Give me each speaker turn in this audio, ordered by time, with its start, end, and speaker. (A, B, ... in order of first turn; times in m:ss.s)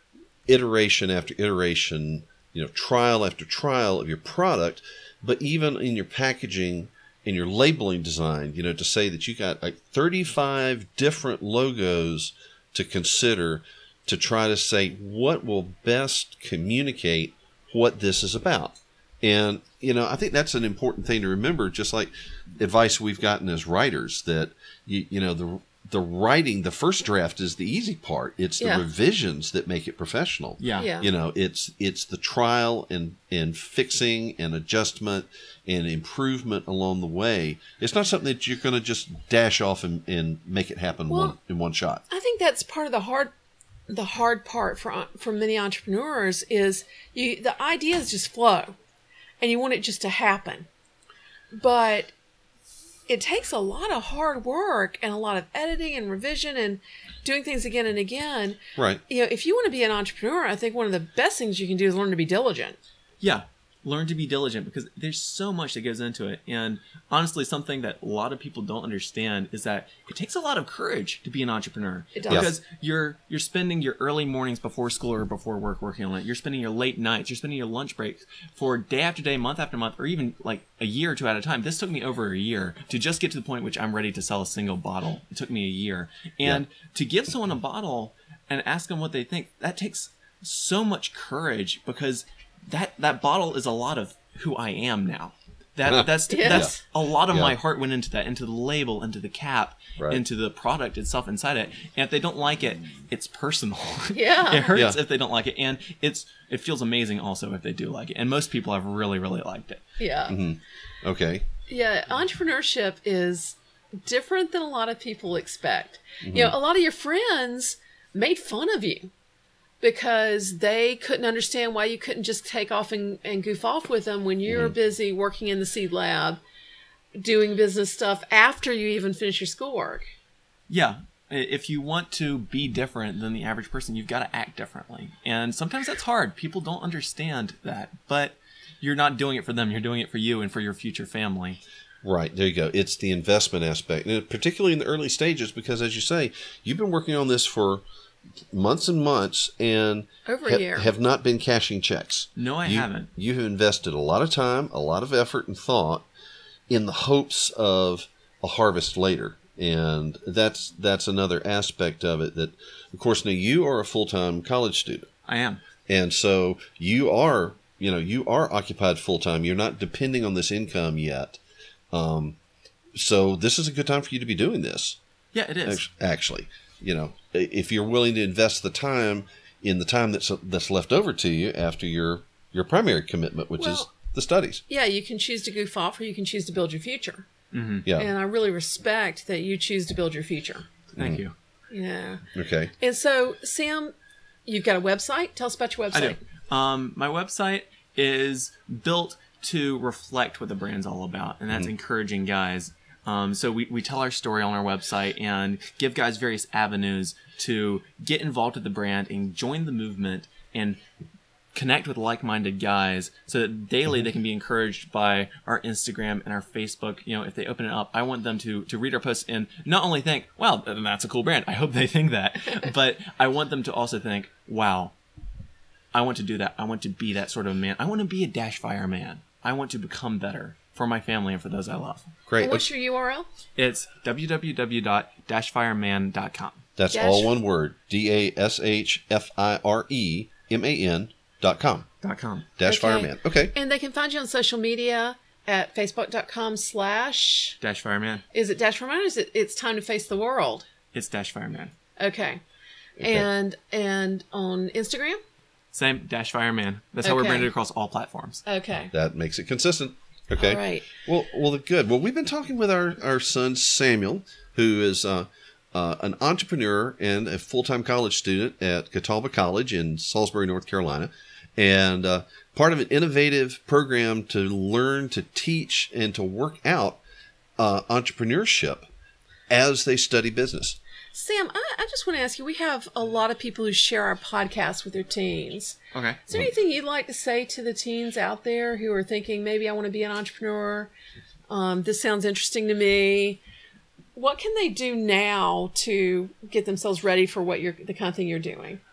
0:00.5-0:42.0 A
0:30.6-0:30.9 B
0:30.8-0:31.1 C
0:41.1-0:41.3 C
0:42.1-0:43.3 C
0:43.9-0:48.8 C
0:49.4-0:50.7 C
0:51.5-0:52.1 C
0:53.1-1:02.8 C
1:03.2-1:49.8 B
1:12.1-1:12.5 C
1:35.9-1:36.7 A
1:36.3-1:36.8 C
1:44.1-1:44.8 C
1:50.0-1:50.4 C
1:50.3-1:51.4 A
1:51.7-1:59.1 C
1:56.2-1:56.5 A
1:59.8-2:06.4 C
2:04.5-2:04.7 A
2:07.2-2:10.1 C
2:10.7-2:21.6 B
2:22.0-2:27.8 A
2:28.5-2:36.0 A
2:30.2-2:30.9 C
2:32.4-2:33.1 B
2:36.7-2:45.1 A
2:45.3-2:45.6 B
2:45.9-2:51.4 A
2:51.9-2:52.4 A
2:52.9-2:55.0 A
2:55.3-2:55.8 B
2:55.6-3:04.6 A
3:03.6-3:03.9 C
3:04.7-3:07.3 C
3:07.5-3:07.8 B
3:07.8-3:08.1 A
3:07.9-3:10.7 C
3:10.9-3:11.3 B
3:11.7-3:12.2 C
3:12.3-3:12.7 A
3:12.8-3:13.9 C
3:14.4-3:16.2 C
3:15.9-3:30.8 B
3:31.5-3:44.9 B
3:45.9-3:52.1 B
3:52.3-3:52.6 A
3:52.4-3:53.3 C
3:53.6-3:56.6 B
3:56.8-4:01.9 A
3:56.9-3:57.3 C
4:02.0-4:02.5 B
4:02.6-4:03.5 A
4:02.6-4:07.6 C
4:07.6-4:08.2 B
4:08.3-4:10.7 C
4:10.9-4:11.7 B
4:12.0-4:12.4 C
4:13.0-4:13.2 A
4:13.0-4:15.2 C
4:15.7-4:18.4 B
4:17.0-4:17.5 C
4:18.4-4:18.9 C
4:18.9-4:37.0 A
4:20.4-4:20.9 C
4:37.6-4:38.9 A
4:39.5-4:40.8 A
4:41.1-4:50.9 C
4:45.9-4:46.2 B
4:51.5-4:53.4 C
4:54.1-4:58.8 C